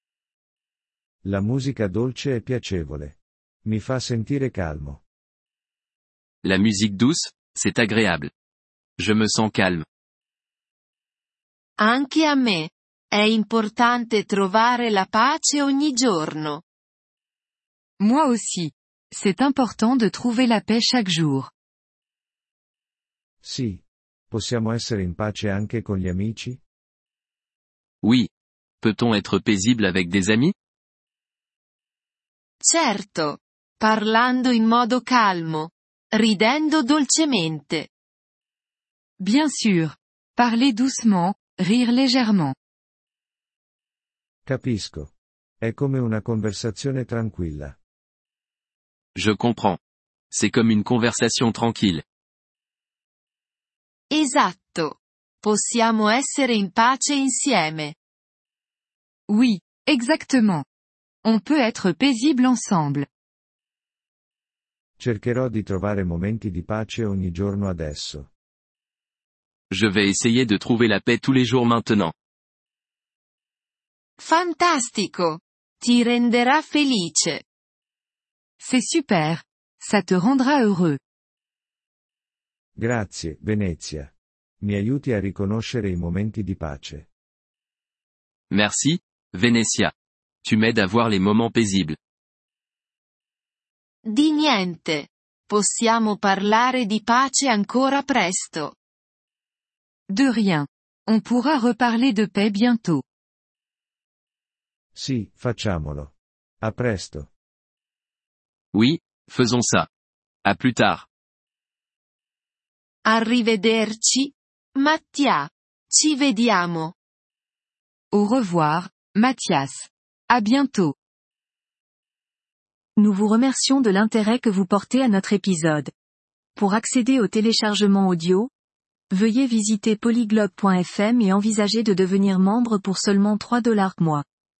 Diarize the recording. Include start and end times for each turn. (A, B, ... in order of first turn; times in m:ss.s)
0:01.2-0:05.0 A
0:06.4-0:08.3 B
0:09.0-0:09.8 B
0:11.8-0:16.6 C
0:18.0-0:21.5 D
0:23.4-0:26.6 A
0:28.0-0:28.3 B
0:28.8-0:30.6 B
0:32.6-0:37.9 C
0:39.2-0:42.6 D
0:44.5-0:47.8 A
0:49.2-0:49.8 B
0:50.3-0:52.0 B
0:54.1-0:58.0 C
0:59.3-1:00.6 D
1:01.2-1:03.1 D
1:05.0-1:08.3 A
1:09.7-1:12.1 B
1:14.2-1:17.4 C
1:18.6-1:21.0 D
1:22.8-1:27.1 A
1:28.5-1:32.0 B
1:34.1-1:38.8 C
1:40.1-1:43.0 D
1:45.0-1:47.3 A
1:48.7-1:49.9 B
1:50.4-1:51.1 B
1:53.0-1:57.0 C
1:58.1-2:01.0 D
2:03.0-2:05.9 E
2:06.6-2:08.5 E
2:09.1-2:14.2 E